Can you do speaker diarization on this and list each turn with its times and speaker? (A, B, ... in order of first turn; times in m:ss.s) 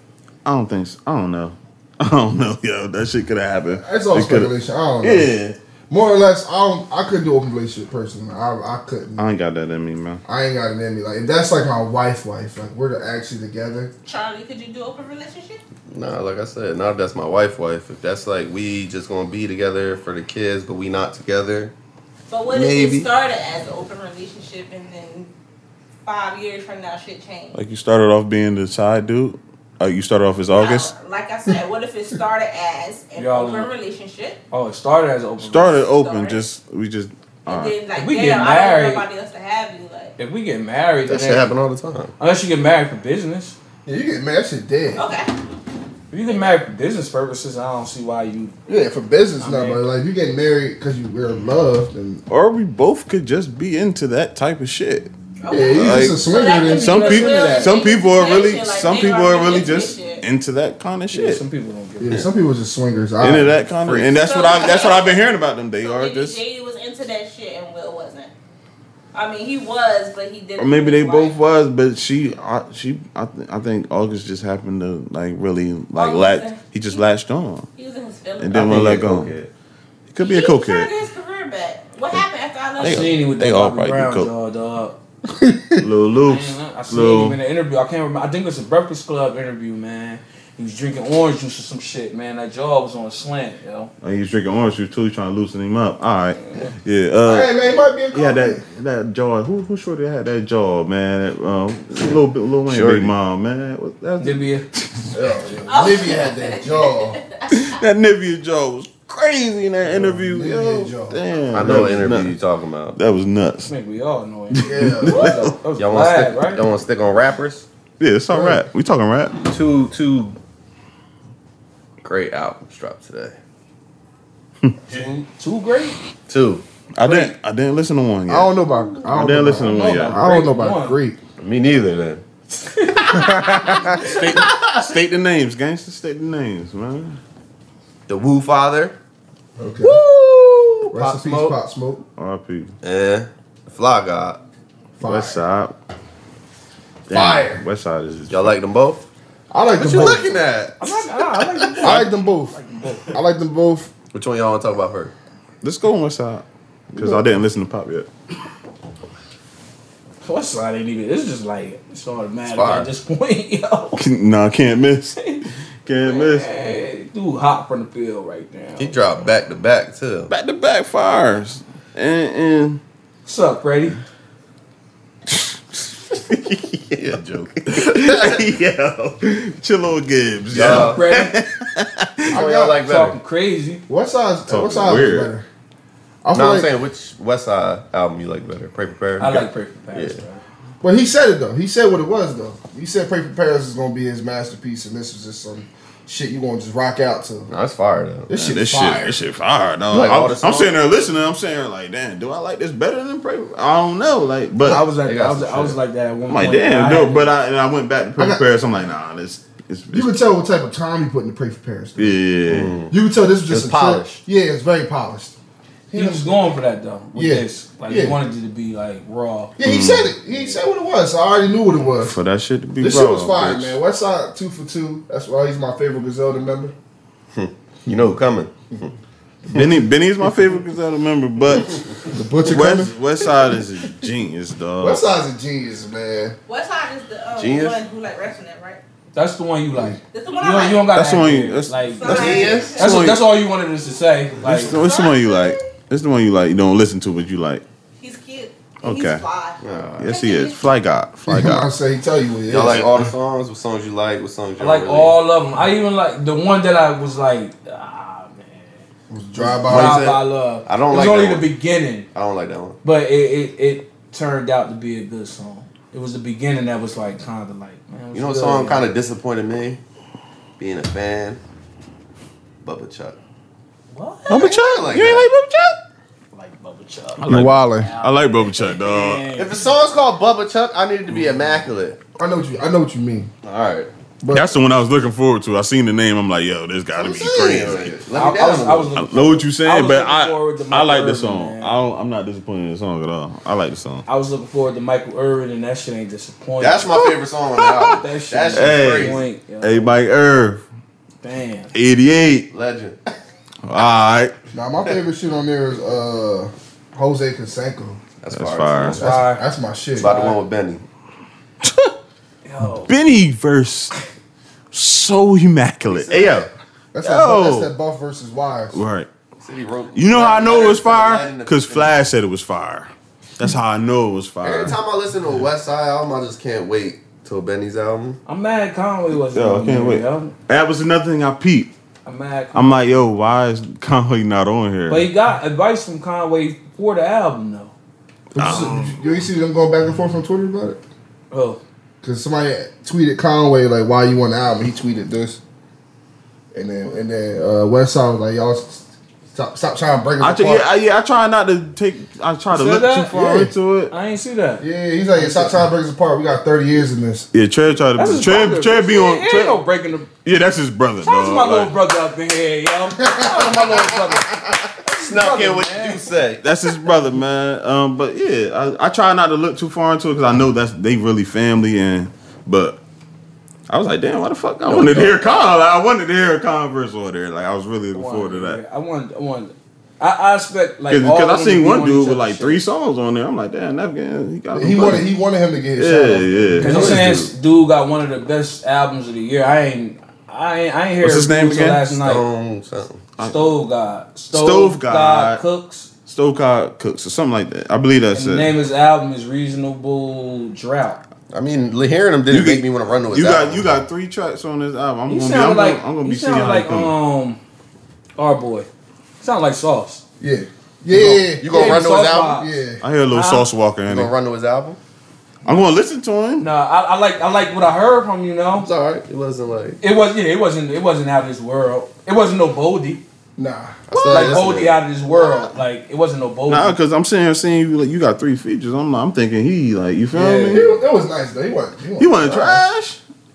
0:00.4-0:04.5 A
0:03.7-0:05.3 B
0:05.0-0:05.6 A
0:05.9-0:09.2 B
0:09.2-0:10.2 A
0:10.3-0:13.9 B
0:14.0-0:15.6 C
0:15.9-0:21.7 D
0:22.3-0:25.3 C
0:22.5-0:23.1 D
0:26.0-0:27.6 C
0:27.5-0:30.9 A
0:30.5-0:34.4 C
0:33.2-0:33.7 E
0:34.5-0:35.8 E
0:35.4-0:37.8 A
0:35.9-0:36.4 C
0:37.4-0:40.1 C
0:37.9-0:39.0 E
0:40.2-0:41.5 E
0:41.1-0:42.1 D
0:42.2-0:43.6 E
0:43.8-0:45.0 B
0:45.0-0:45.3 C
0:46.1-0:48.5 E
0:48.7-0:52.2 B
0:49.4-0:49.8 E
0:52.3-0:55.1 A
0:55.4-1:00.2 C
0:55.5-0:56.9 B
0:55.7-1:01.4 A
0:56.6-0:57.8 E
1:01.1-1:02.2 E
1:02.0-1:03.6 B
1:03.2-1:06.4 A
1:04.2-1:08.3 C
1:09.1-1:11.4 C
1:10.6-1:17.7 A
1:15.9-1:17.0 C
1:17.7-1:18.8 C
1:18.4-1:19.3 A
1:18.5-1:19.5 D
1:20.1-1:20.9 A
1:20.2-1:23.2 C
1:22.8-1:25.0 E
1:22.8-1:24.3 A
1:25.2-1:25.8 B
1:25.8-1:27.4 A
1:26.2-1:33.9 E
1:34.0-1:37.5 A
1:37.2-1:38.6 B
1:38.1-1:45.1 A
1:42.7-1:43.1 D
1:44.2-1:44.7 E
1:45.1-1:47.2 B
1:45.7-1:47.4 C
1:47.5-1:52.4 A
1:49.8-1:51.2 B
1:51.5-1:53.0 D
1:52.9-1:53.7 A
1:53.7-1:56.6 E
1:54.5-1:55.5 A
1:54.6-1:55.2 B
1:55.7-1:57.6 D
1:58.0-1:59.4 A
1:58.3-1:58.6 B
1:59.4-2:00.4 D
2:02.0-2:03.4 D
2:04.9-2:05.2 D
2:05.4-2:06.0 E
2:06.3-2:06.6 D
2:06.9-2:10.4 A
2:07.0-2:07.3 E
2:08.3-2:11.2 B
2:09.6-2:11.0 E
2:11.4-2:12.2 D
2:12.8-2:14.4 E
2:13.1-2:14.0 B
2:13.6-2:17.2 A
2:14.0-2:14.4 D
2:18.1-2:18.9 D
2:19.6-2:20.0 B
2:19.8-2:21.6 D
2:20.9-2:22.0 B
2:22.2-2:22.7 A
2:22.8-2:24.4 D
2:25.0-2:25.4 B
2:25.0-2:25.8 A
2:27.1-2:28.6 A
2:27.1-2:27.6 B
2:28.3-2:29.0 D
2:29.5-2:30.3 B
2:29.8-2:30.8 D
2:30.8-2:33.1 E
2:31.8-2:32.1 A
2:31.8-2:32.6 B
2:33.1-2:33.9 B
2:34.1-2:35.1 D
2:35.6-2:38.1 A
2:36.9-2:37.3 B
2:40.2-2:44.0 E
2:42.5-2:42.9 D
2:44.0-2:45.2 A
2:45.2-2:45.4 E
2:45.8-2:46.5 A
2:46.0-2:49.0 E
2:48.8-2:50.3 D
2:50.3-2:52.8 A
2:53.2-2:54.0 E
2:55.3-2:55.5 A
2:56.1-2:56.6 A
2:56.7-2:58.6 D
2:57.6-3:02.4 A
3:00.5-3:01.2 D
3:00.6-3:01.3 E
3:02.3-3:02.8 B
3:02.3-3:03.2 D
3:02.8-3:03.8 E
3:03.9-3:05.4 B
3:04.5-3:05.3 A
3:06.2-3:06.7 B
3:06.3-3:10.2 D
3:09.2-3:10.4 E
3:10.8-3:17.5 B
3:17.5-3:18.3 D
3:18.3-3:19.2 B
3:18.3-3:24.8 A
3:19.9-3:20.7 D
3:24.6-3:27.3 E
3:24.7-3:25.8 D
3:26.3-3:30.1 A
3:28.2-3:28.4 B
3:29.9-3:32.2 B
3:32.0-3:32.7 A
3:32.5-3:32.9 D
3:32.9-3:35.3 B
3:33.5-3:34.2 D
3:35.9-3:36.5 B
3:35.9-3:39.5 E
3:37.1-3:38.2 B
3:39.6-3:42.1 B
3:39.6-3:40.1 A
3:42.0-3:43.8 A
3:42.8-3:46.7 B
3:47.3-3:48.9 D
3:49.5-3:51.8 A
3:49.5-3:49.8 D
3:52.1-3:52.9 B
3:52.4-3:55.0 A
3:54.8-3:56.4 B
3:56.5-3:58.8 C
3:57.4-3:57.8 D
3:59.1-4:04.8 E
4:00.1-4:00.9 C
4:00.9-4:03.2 A
4:01.9-4:03.0 C
4:02.0-4:03.2 D
4:04.4-4:07.6 A
4:04.6-4:05.7 C
4:08.0-4:10.6 C
4:08.8-4:09.2 A
4:09.6-4:10.1 D
4:10.0-4:11.7 A
4:11.3-4:12.9 B
4:12.5-4:15.1 D
4:14.6-4:18.8 E
4:19.1-4:20.1 B
4:19.4-4:21.5 D
4:19.6-4:22.1 E
4:22.1-4:22.8 D
4:22.8-4:28.9 E
4:28.1-4:29.8 D
4:30.6-4:31.4 D
4:32.6-4:33.2 D
4:33.9-4:34.5 E
4:34.3-4:35.8 A
4:34.3-4:35.3 D
4:36.3-4:39.7 E
4:37.2-4:39.3 A
4:37.3-4:37.9 B
4:39.3-4:42.0 D
4:42.2-4:43.3 B
4:43.4-4:43.9 D
4:44.2-4:44.5 B
4:44.3-4:48.0 A
4:47.0-4:48.9 D
4:48.1-4:51.7 E
4:48.9-4:54.0 A
4:54.0-4:56.9 E
4:56.6-4:59.2 D
4:57.0-4:58.0 A
4:57.9-5:00.0 E
4:58.5-5:00.6 A
5:01.2-5:01.7 E
5:01.7-5:02.5 A
5:02.5-5:03.0 D
5:03.6-5:04.3 A
5:04.5-5:08.0 B
5:08.2-5:09.0 D
5:08.3-5:09.0 A
5:09.0-5:09.4 E
5:09.0-5:10.2 B
5:10.0-5:10.4 E
5:10.0-5:10.8 D
5:11.6-5:11.9 A
5:12.4-5:12.9 E
5:12.9-5:13.9 A
5:14.7-5:16.5 A
5:15.8-5:16.5 D
5:16.9-5:18.8 B
5:17.0-5:17.7 A
5:18.7-5:19.1 A
5:19.4-5:21.9 D
5:19.9-5:24.8 A
5:24.4-5:28.2 D
5:28.3-5:30.3 E
5:29.2-5:31.7 A
5:32.0-5:32.8 E
5:32.5-5:35.1 A
5:34.9-5:37.7 E
5:38.3-5:40.8 B
5:38.4-5:39.1 A
5:41.3-5:41.6 E
5:42.0-5:45.4 B
5:46.5-5:50.7 B
5:50.2-5:53.9 A
5:52.5-5:53.1 E
5:53.1-5:53.5 B
5:53.9-5:54.6 E
5:54.6-5:57.3 B
5:55.2-5:55.5 E
5:57.3-5:59.6 A
5:58.0-6:00.1 E
6:00.2-6:01.7 A
6:01.0-6:06.0 E
6:03.0-6:03.8 B
6:04.9-6:06.4 D
6:06.4-6:12.8 A
6:13.7-6:18.6 A
6:14.6-6:15.4 D
6:17.9-6:22.6 E
6:20.9-6:25.1 A
6:24.5-6:27.1 B
6:25.8-6:27.2 A
6:26.6-6:27.3 D
6:26.6-6:32.2 E
6:31.0-6:31.9 A
6:31.9-6:33.0 D
6:33.2-6:33.5 A
6:33.2-6:35.9 E
6:34.3-6:35.4 A
6:36.0-6:38.5 A
6:38.1-6:41.0 E
6:41.3-6:43.7 D
6:42.3-6:46.9 A
6:45.1-6:47.4 E
6:48.2-6:48.7 E
6:49.2-6:50.0 E
6:50.2-6:52.8 B
6:51.0-6:52.6 E
6:51.3-6:52.4 D
6:52.8-6:54.1 A
6:53.1-6:53.4 E
6:53.9-6:54.8 D
6:55.4-6:56.5 A
6:56.4-6:58.7 E
6:58.6-6:59.8 D
6:59.8-7:03.0 E
7:03.4-7:03.9 B
7:03.9-7:04.8 D
7:04.0-7:04.4 A
7:04.1-7:06.8 E
7:06.5-7:10.7 A
7:10.1-7:10.7 E
7:10.5-7:12.6 B
7:12.0-7:13.0 A